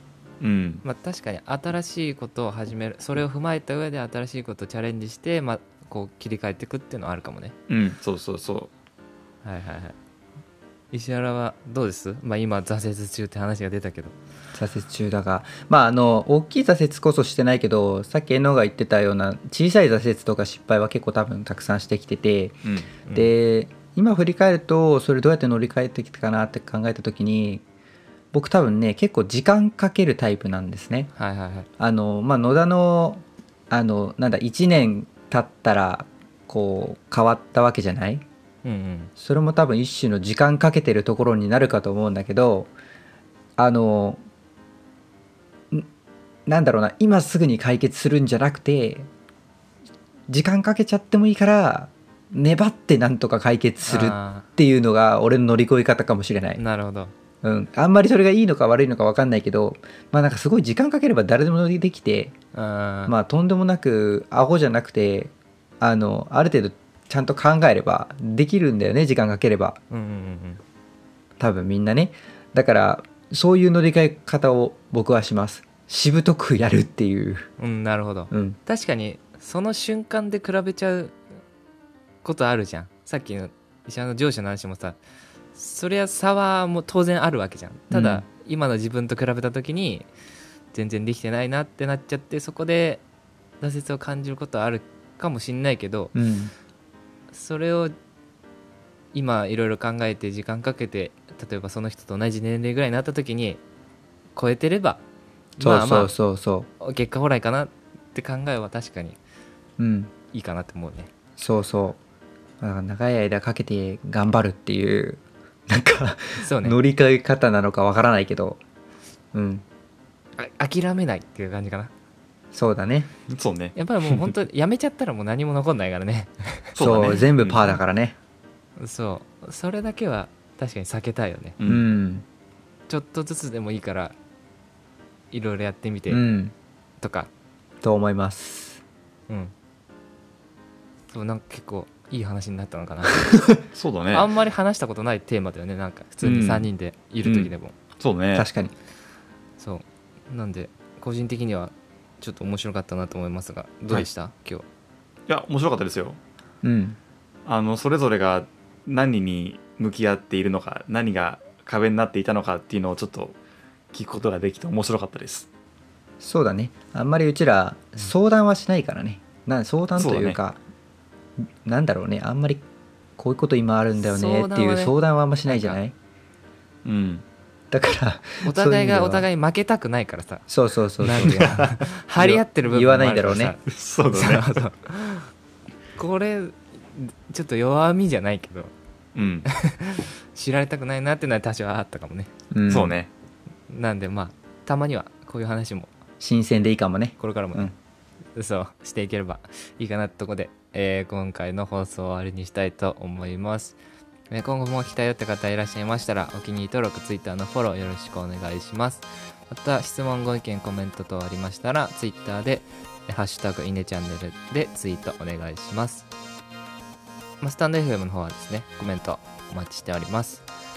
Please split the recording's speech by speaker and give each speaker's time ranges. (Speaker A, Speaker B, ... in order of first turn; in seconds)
Speaker A: 0.4-0.8, 7.7-8.7, 22.6-22.9, 123.3-124.3, 126.8-127.8, 131.6-131.8, 143.7-144.3, 146.2-146.7, 147.2-148.5, 155.3-156.2, 157.5-163.3, 163.9-165.5, 170.0-170.4, 176.8-177.2, 181.2-181.9, 183.7-184.6, 189.2-189.5, 192.7-193.1
Speaker B: 0.8-7.5, 9.4-10.0, 10.9-14.2, 23.1-23.3, 31.2-31.7, 38.6-39.1, 53.8-54.5, 56.6-57.1, 62.5-63.1, 69.9-70.6, 77.6-81.2, 82.2-85.0, 85.5-90.1, 90.7-93.0, 93.6-96.1, 97.3-98.0, 99.1-103.6, 104.4-105.0, 105.6-106.1, 106.8-109.2, 110.3-111.1, 116.4-116.8, 120.4-121.9, 123.8-126.7, 128.8-131.6, 132.9-134.2, 135.3-136.2, 137.0-137.3, 141.1-143.4, 144.1-147.7, 149.6-154.7, 174.0-174.9, 175.5-175.8, 178.4-180.5, 181.0-185.3, 186.0-188.7, 189.5-192.3, 193.7-195.9, 197.2-197.7, 198.4-203.8, 204.3-216.1, 217.4-220.5
Speaker C: 14.5-22.6, 23.1-27.6, 28.3-31.1, 31.8-38.2, 39.2-42.7, 43.6-44.2, 46.5-49.1, 50.3-56.6, 57.4-62.4, 63.1-69.8, 71.4-77.5, 78.3-78.6, 87.9-88.2, 96.1-96.5, 105.6-106.7, 109.8-110.1, 111.4-112.0, 112.6-118.6, 119.3-119.6, 122.5-123.1, 126.8-128.2, 131.7-132.2, 136.1-136.5, 137.8-138.8, 143.3-143.6, 148.3-148.7, 156.6-157.0, 166.2-170.6, 171.4-172.6, 173.2-175.9, 177.7-179.2, 180.5-181.6, 182.2-183.5, 192.5-193.0, 196.2-197.7